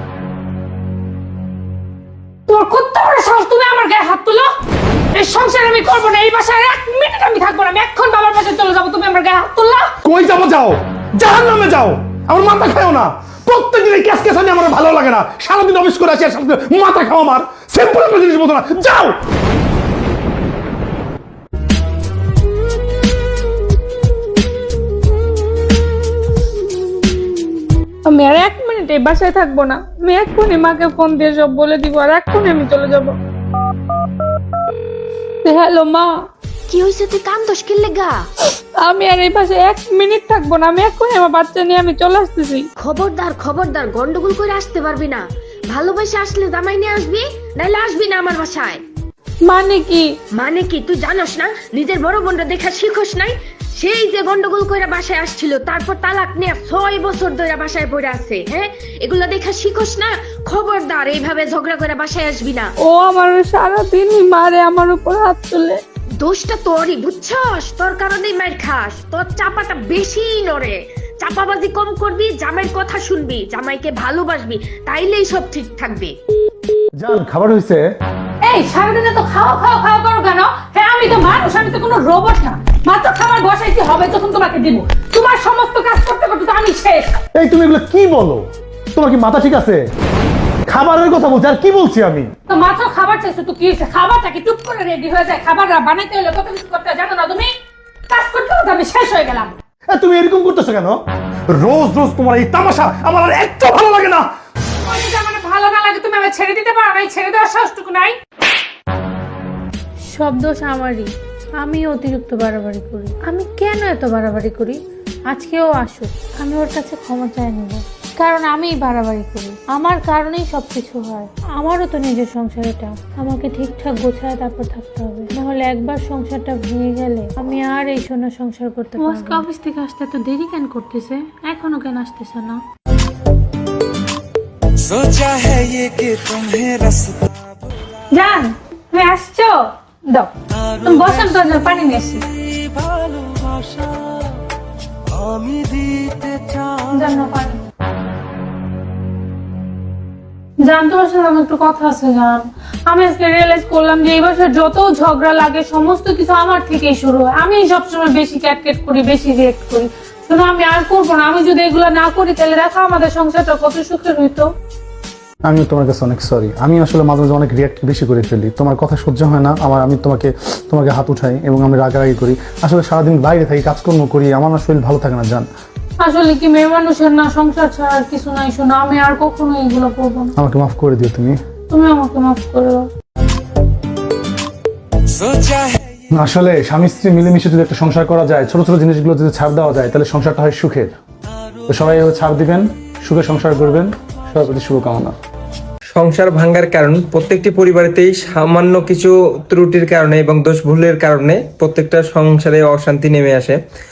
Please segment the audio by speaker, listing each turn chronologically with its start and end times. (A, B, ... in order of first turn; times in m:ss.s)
0:02.5-0:04.5 A
0:05.1-0:09.9 A
0:10.0-0:19.1 B
0:28.0-0:33.1 A
0:35.4-0:36.1 A
0:36.7-0:38.2 C
0:38.8-0:42.6 A
0:42.8-0:48.8 C
0:49.5-0:50.1 A
0:50.4-1:02.7 C
1:02.9-1:05.8 A
1:06.2-1:16.1 C
1:17.0-1:17.8 B
1:18.4-1:27.2 A
1:27.4-1:29.8 B
1:30.7-1:32.3 B
1:32.5-1:37.5 A
1:38.1-1:39.5 A
1:39.9-1:41.0 B
1:41.5-1:44.2 B
1:44.8-1:48.2 A
1:50.1-1:51.1 D
1:51.6-1:54.8 D
1:55.3-2:12.6 D
2:09.0-2:09.5 A
2:14.9-2:17.2 E
2:18.1-2:20.3 A
2:20.8-2:22.3 A
2:25.3-2:26.7 E
2:26.9-2:27.6 A
2:30.6-2:44.4 A
2:45.5-2:55.5 B
2:56.0-3:00.3 A
3:00.4-3:01.4 B
3:01.7-3:02.8 A
3:05.3-3:05.7 E
3:06.1-3:10.9 B
3:11.7-3:15.1 B
3:15.9-3:23.6 F